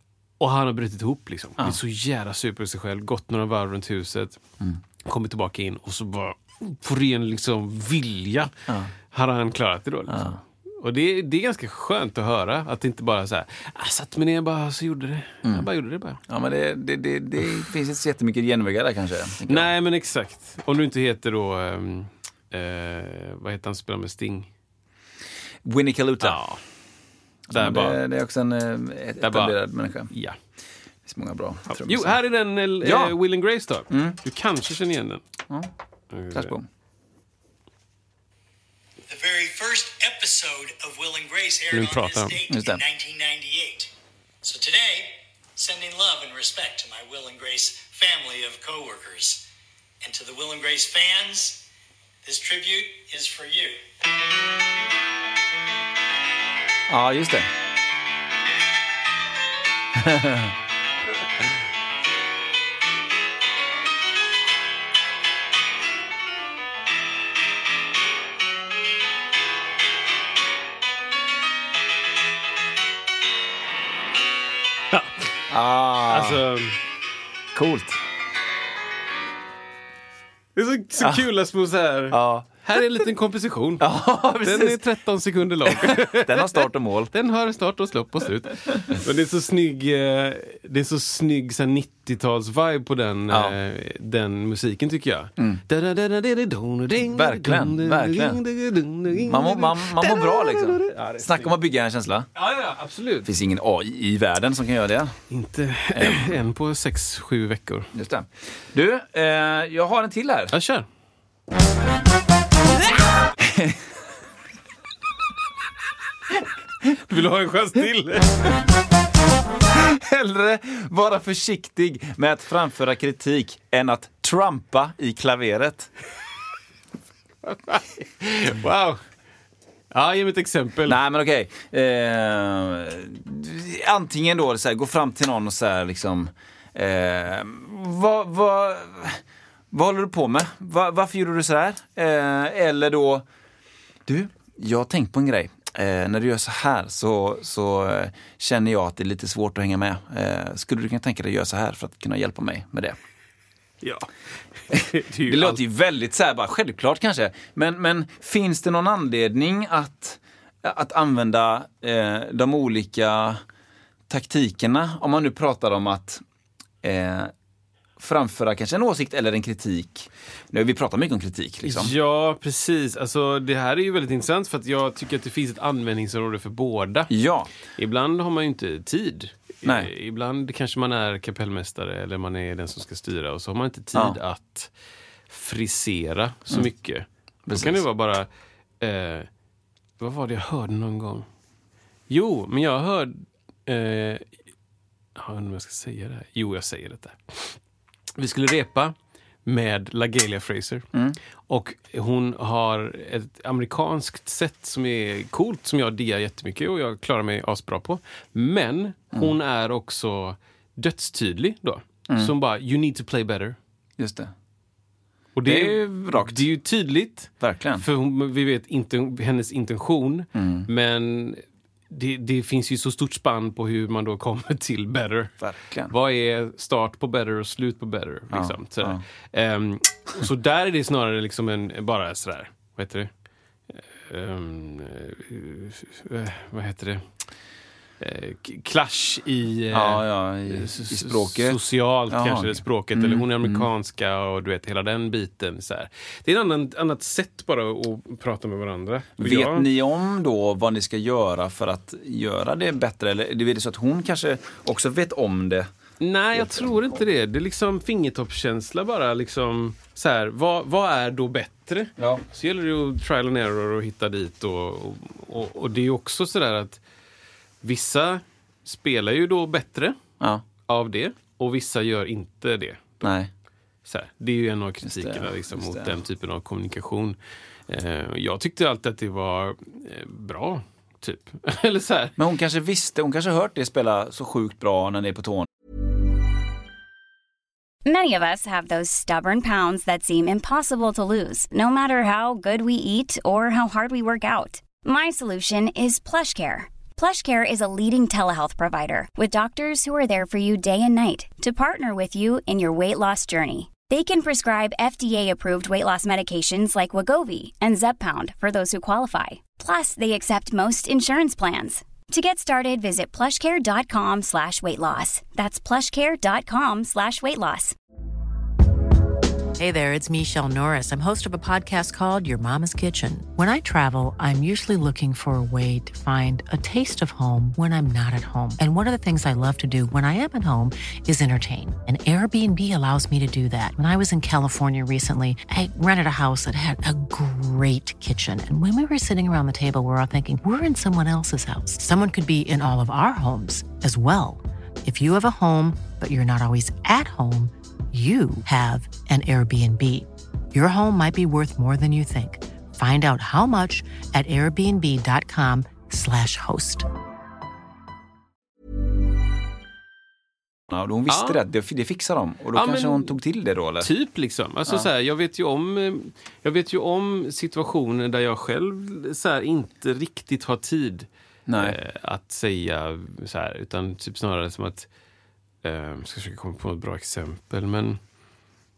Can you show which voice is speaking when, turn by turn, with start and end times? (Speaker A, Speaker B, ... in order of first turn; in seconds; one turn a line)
Speaker A: 0.4-4.4
Speaker A: 5.0-8.5
Speaker A: 9.1-16.2
Speaker B: 10.1-10.4
Speaker B: 16.3-19.7
Speaker A: 19.5-24.5
Speaker B: 25.6-26.4
Speaker A: 26.2-26.6
Speaker B: 27.5-30.1
Speaker A: 27.5-28.0
Speaker A: 29.2-29.6
Speaker A: 30.1-30.4
Speaker B: 31.1-32.2
Speaker A: 31.7-35.2
Speaker B: 32.8-33.1
Speaker B: 33.9-34.2
Speaker A: 36.1-36.5
Speaker B: 36.3-36.7
Speaker C: 39.1-43.9
Speaker A: 41.7-42.4
Speaker B: 42.5-42.8
Speaker C: 44.4-49.5
Speaker C: 50.0-51.6
Speaker C: 52.2-53.8
Speaker B: 56.9-57.5
Speaker B: 59.9-60.5
Speaker A: 74.9-75.3
Speaker B: 75.5-76.4
Speaker A: 76.1-76.8
Speaker B: 77.5-78.0
Speaker A: 80.6-101.5
Speaker B: 82.1-82.5
Speaker B: 83.8-84.8
Speaker B: 85.7-87.1
Speaker B: 93.3-93.6
Speaker B: 97.0-98.4
Speaker B: 99.1-102.3
Speaker A: 102.4-103.3
Speaker B: 103.2-105.2
Speaker A: 105.3-107.9
Speaker B: 106.0-106.3
Speaker B: 107.9-110.5
Speaker A: 110.5-110.9
Speaker B: 113.4-113.8
Speaker A: 116.9-118.6
Speaker B: 119.7-125.9
Speaker A: 127.5-129.0
Speaker A: 129.9-131.0
Speaker B: 130.8-143.3
Speaker B: 144.1-153.0
Speaker A: 153.8-154.1
Speaker A: 154.7-155.6
Speaker B: 154.7-163.4
Speaker B: 164.1-166.2
Speaker B: 166.8-167.3
Speaker B: 168.0-171.9
Speaker A: 171.6-177.1
Speaker B: 177.1-177.5
Speaker A: 177.8-184.7
Speaker B: 179.6-179.9
Speaker A: 185.3-188.3
Speaker B: 187.5-187.8
Speaker A: 188.8-189.3
Speaker A: 190.0-191.3
Speaker A: 192.1-194.3
Speaker A: 195.2-197.6
Speaker A: 198.2-198.9
Speaker A: 199.4-200.9
Speaker A: 201.5-213.6
Speaker B: 214.0-214.3
Speaker A: 215.4-225.3
Speaker B: 215.4-216.4
Speaker B: 217.4-217.8
Speaker B: 220.3-220.7
Speaker B: 225.4-225.9
Speaker A: 225.9-233.1
Speaker B: 228.3-229.0
Speaker A: 233.7-237.0
Speaker A: 238.0-249.7
Speaker B: 239.7-241.6
Speaker B: 242.1-243.7
Speaker B: 249.2-255.7
Speaker A: 256.0-266.8
Speaker B: 256.3-256.8
Speaker B: 262.0-262.2
Speaker A: 267.6-270.0
Speaker A: 270.7-273.1
Speaker B: 273.0-273.3
Speaker A: 273.9-277.2
Speaker B: 274.8-276.0
Speaker A: 277.7-282.2
Speaker B: 282.2-285.5
Speaker D: 287.9-317.8
Speaker E: 319.6-356.9
Speaker B: 360.7-363.9
Speaker A: 361.1-361.4
Speaker A: 362.5-363.1
Speaker A: 363.8-374.9
Speaker B: 371.5-371.8
Speaker A: 375.6-378.0